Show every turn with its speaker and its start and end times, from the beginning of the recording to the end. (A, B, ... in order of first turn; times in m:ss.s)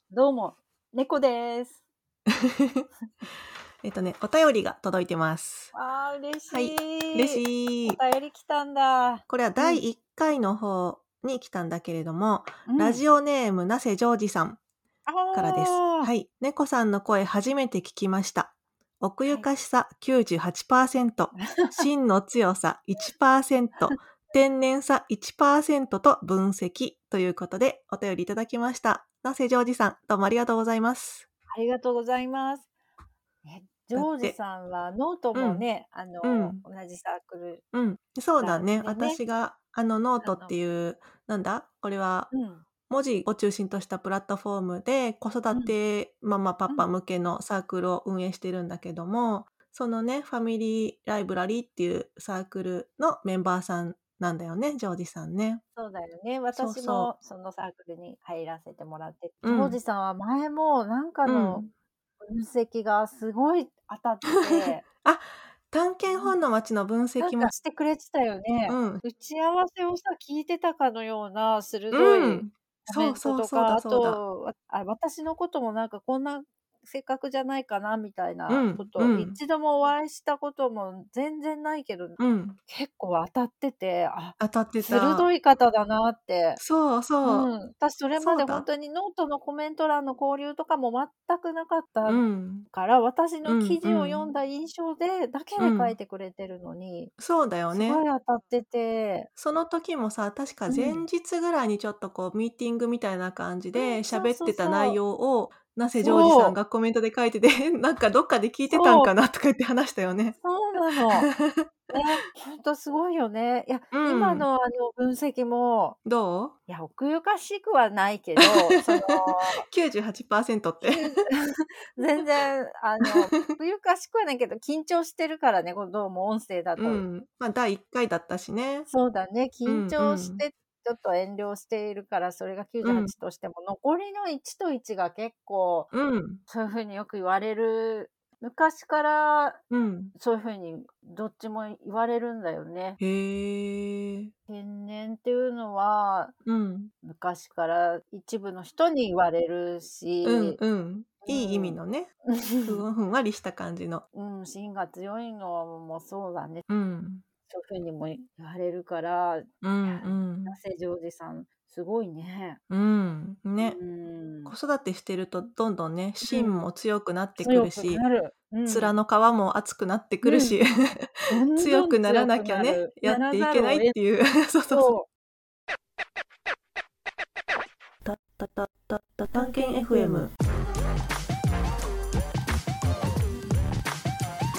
0:00.1-0:01.8 A
0:02.6-0:02.8 B
0:03.8-0:05.7 B
0:05.7-0:09.8 A
0:06.5-0:08.0 B
0:09.3-0:14.6 B
0:12.7-0:13.0 A
0:15.0-0:16.1 A
0:15.3-0:31.3 B
0:21.3-0:21.8 A
0:31.5-0:32.7 A
0:33.4-0:37.6 A
0:33.9-0:34.4 B
0:35.3-0:35.6 B
0:36.2-0:36.6 B
0:37.7-0:42.3 B
0:38.4-0:39.2 A
0:40.2-0:40.5 A
0:42.3-0:42.6 A
0:42.9-0:55.6 B
0:55.8-1:01.6 A
0:56.5-0:57.1 B
0:59.4-0:59.8 B
1:01.2-1:01.7 B
1:02.2-1:04.9 A
1:04.5-1:07.5 B
1:06.1-1:06.4 A
1:07.2-1:26.6 A
1:08.7-1:09.0 B
1:11.9-1:14.2 B
1:18.5-1:19.4 B
1:22.2-1:22.6 B
1:24.4-1:25.3 B
1:26.6-1:27.5 B
1:27.2-1:37.1 A
1:28.2-1:28.6 B
1:32.0-1:32.7 B
1:33.4-1:34.2 B
1:35.6-1:35.9 B
1:37.2-1:38.0 B
1:37.7-1:39.3 A
1:39.4-1:50.4 B
1:40.7-1:41.0 A
1:43.7-1:45.0 A
1:45.9-1:46.6 A
1:48.7-1:49.1 A
1:50.4-1:51.3 A
1:51.1-1:51.9 B
1:51.9-1:56.0 A
1:53.9-1:54.5 B
1:56.0-1:56.5 B
1:56.7-1:59.6 A
1:58.4-2:01.2 B
2:00.8-2:01.4 A
2:01.9-2:07.0 A
2:03.0-2:03.5 B
2:06.8-2:08.9 B
2:08.9-2:15.9 A
2:09.6-2:10.4 B
2:12.8-2:13.1 B
2:15.9-2:16.4 B
2:16.5-2:19.6 A
2:19.7-2:20.1 B
2:20.1-2:23.0 A
2:23.0-2:24.3 B
2:24.5-2:26.3 A
2:26.4-2:26.9 B
2:27.0-2:30.6 A
2:30.2-2:32.1 B
2:31.2-2:32.8 A
2:32.6-2:34.0 B
2:34.1-2:36.6 A
2:36.7-2:37.2 B
2:37.5-2:42.6 A
2:39.6-2:40.6 B
2:42.7-2:43.8 B
2:43.6-2:44.5 A
2:44.5-2:48.0 B
2:46.2-2:46.7 A
2:47.4-2:48.9 A
2:48.6-2:54.9 B
2:50.2-2:50.6 A
2:51.3-2:53.9 A
2:54.7-2:55.1 A
2:58.0-3:00.3 B
2:59.3-3:00.3 A